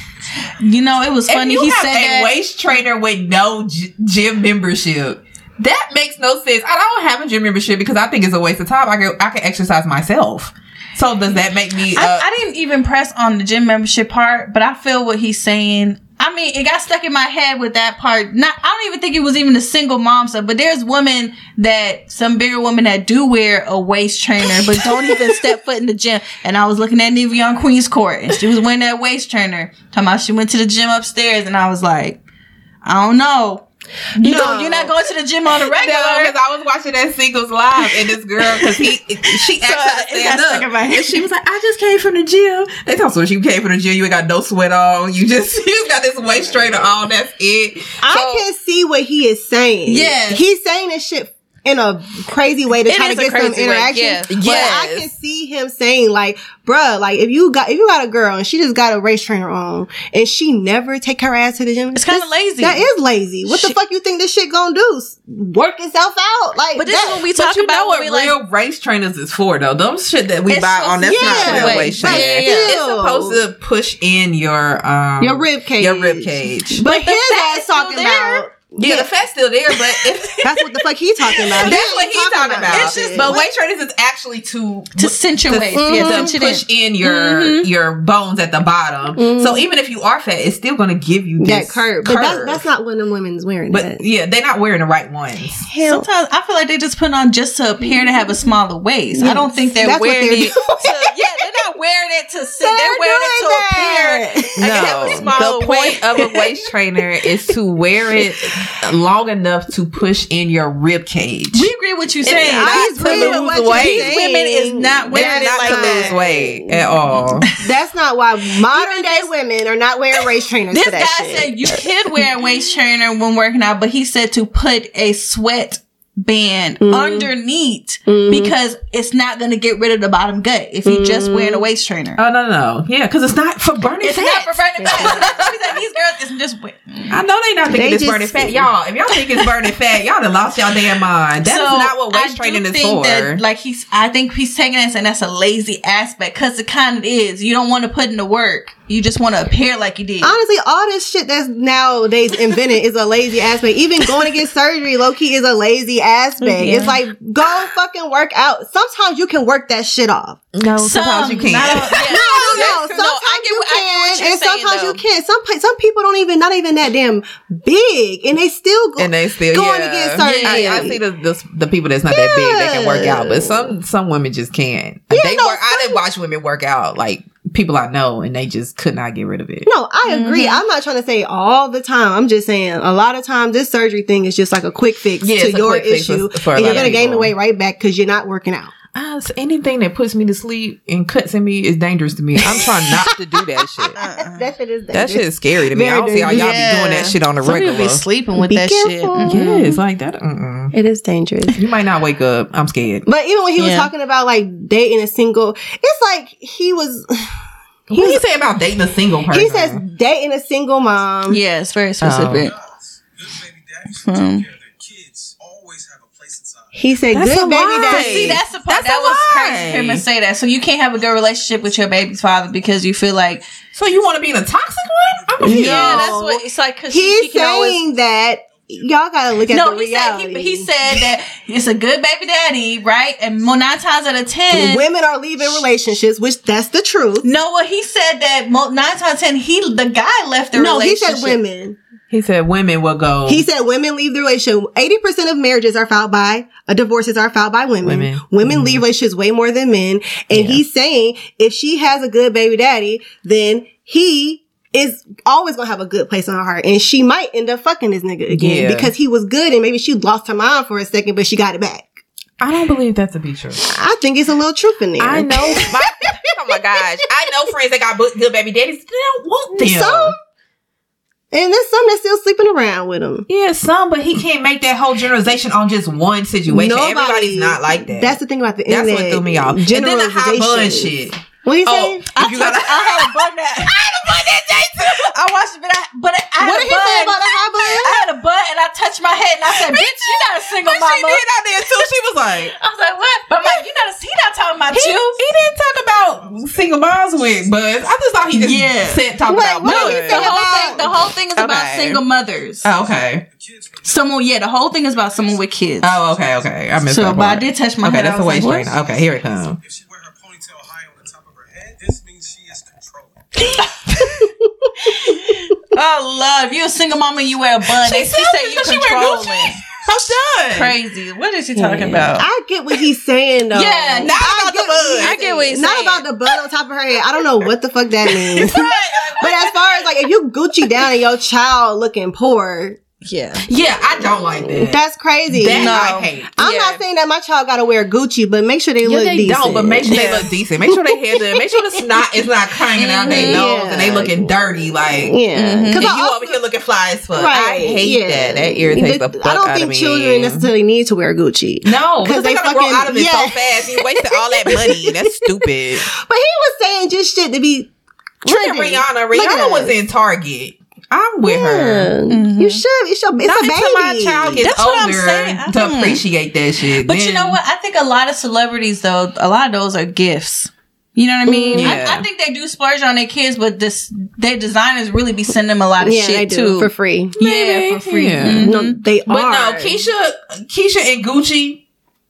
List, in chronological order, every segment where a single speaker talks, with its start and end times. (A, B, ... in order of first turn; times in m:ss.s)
0:00.4-0:02.3 A
0:01.3-0:12.2 B
0:11.9-0:32.2 A
0:32.8-0:36.3 A
0:34.2-0:34.9 C
0:35.6-0:48.0 B
0:39.5-0:41.2 A
0:48.0-1:07.2 C
0:48.1-0:48.4 A
0:49.8-0:50.4 A
0:52.8-0:55.0 A
0:54.3-0:55.0 B
1:01.9-1:02.8 A
1:03.4-1:03.8 A
1:06.8-1:08.4 A
1:07.3-1:16.8 B
1:10.5-1:12.8 A
1:11.0-1:13.4 C
1:15.2-1:19.1 C
1:16.7-1:18.4 A
1:18.8-1:20.4 B
1:19.7-1:20.6 A
1:20.4-1:23.4 C
1:21.3-1:21.8 A
1:21.6-1:32.6 B
1:22.6-1:23.4 A
1:25.0-1:27.7 A
1:25.7-1:26.3 C
1:29.2-1:29.6 C
1:31.4-1:34.0 C
1:33.7-1:35.6 B
1:35.6-1:36.0 C
1:35.8-1:46.2 A
1:39.1-1:41.0 C
1:42.6-1:45.3 C
1:44.6-1:51.7 B
1:46.2-1:46.5 C
1:51.5-1:56.2 A
1:52.2-1:54.1 B
1:52.5-2:01.8 C
1:55.1-1:57.5 B
1:58.7-1:59.3 A
2:00.7-2:12.2 A
2:06.8-2:07.3 C
2:08.0-2:08.5 C
2:10.8-2:11.6 C
2:12.2-2:15.5 B
2:14.0-2:17.2 A
2:14.8-2:15.3 C
2:17.1-2:23.4 B
2:17.7-2:18.7 C
2:21.4-2:30.4 A
2:30.2-2:40.4 C
2:36.4-2:37.6 A
2:40.5-2:42.7 B
2:40.8-2:45.0 A
2:41.9-2:51.0 C
2:49.0-2:59.7 B
2:50.2-2:51.0 A
2:52.1-2:53.7 C
2:55.1-2:56.0 C
2:59.6-3:08.7 C
3:00.0-3:00.6 A
3:05.2-3:07.3 B
3:06.6-3:07.0 A
3:08.9-3:14.0 B
3:12.5-3:13.0 C
3:13.8-3:16.6 C
3:14.0-3:14.5 A
3:14.9-3:18.0 B
3:16.2-3:19.8 A
3:18.4-3:19.6 C
3:19.2-3:20.7 B
3:20.7-3:21.6 C
3:21.5-3:23.1 B
3:23.0-3:27.4 C
3:23.6-3:23.9 A
3:27.9-3:29.8 B
3:27.9-3:28.2 C
3:29.3-3:31.4 C
3:31.3-3:32.5 A
3:32.0-3:32.5 B
3:33.2-3:34.0 D
3:34.0-3:34.5 A
3:34.6-3:36.6 D
3:36.7-3:38.4 C
3:37.1-3:40.0 B
3:37.8-3:43.5 A
3:43.7-3:46.1 B
3:45.4-3:50.7 C
3:45.4-3:47.8 A
3:49.5-3:54.8 A
3:54.5-3:57.2 C
3:57.2-4:01.4 A
4:00.6-4:01.8 C
4:02.1-4:03.4 B
4:03.2-4:22.0 C
4:07.8-4:08.8 B
4:10.3-4:10.6 B
4:18.3-4:18.9 B
4:22.4-4:23.7 B
4:23.7-4:25.8 C
4:25.0-4:30.1 B
4:29.5-4:30.2 C
4:31.3-4:33.2 C
4:33.3-4:45.1 B
4:36.5-4:40.9 C
4:41.4-4:42.0 C
4:42.1-4:43.9 A
4:44.8-4:51.2 A
4:46.4-4:48.0 C
4:49.5-4:52.5 B
4:52.5-4:55.2 A
4:54.7-5:02.0 B
4:58.3-4:59.1 A
4:59.3-5:00.9 C
4:59.6-5:02.7 A
5:02.6-5:03.2 B
5:03.8-5:06.0 A
5:05.8-5:09.6 B
5:06.8-5:08.8 A
5:09.6-5:13.3 D
5:13.6-5:14.2 B
5:14.8-5:19.6 A
5:17.8-5:20.7 B
5:20.5-5:22.2 A
5:21.6-5:32.8 C
5:23.5-5:24.2 A
5:24.0-5:25.2 B
5:25.0-5:26.0 A
5:28.4-5:29.5 B
5:28.4-5:29.5 A
5:33.0-5:33.4 A
5:33.4-5:36.3 B
5:34.5-5:42.1 C
5:35.5-5:36.8 A
5:38.8-5:45.2 B
5:39.9-5:40.3 A
5:42.8-5:43.5 A
5:42.9-5:46.4 C
5:45.3-5:45.9 A
5:45.7-5:50.5 B
5:47.1-5:55.2 C
5:51.6-5:55.9 B
5:55.8-5:57.7 C
5:58.2-5:59.8 C
5:58.2-6:01.9 B
6:01.2-6:04.4 C
6:02.1-6:02.6 A
6:03.2-6:07.4 B
6:04.4-6:06.0 A
6:06.8-6:18.8 A
6:11.2-6:11.8 C
6:11.6-6:12.0 B
6:15.8-6:17.2 C
6:17.2-6:18.5 B
6:18.0-6:19.8 C
6:19.0-6:21.6 B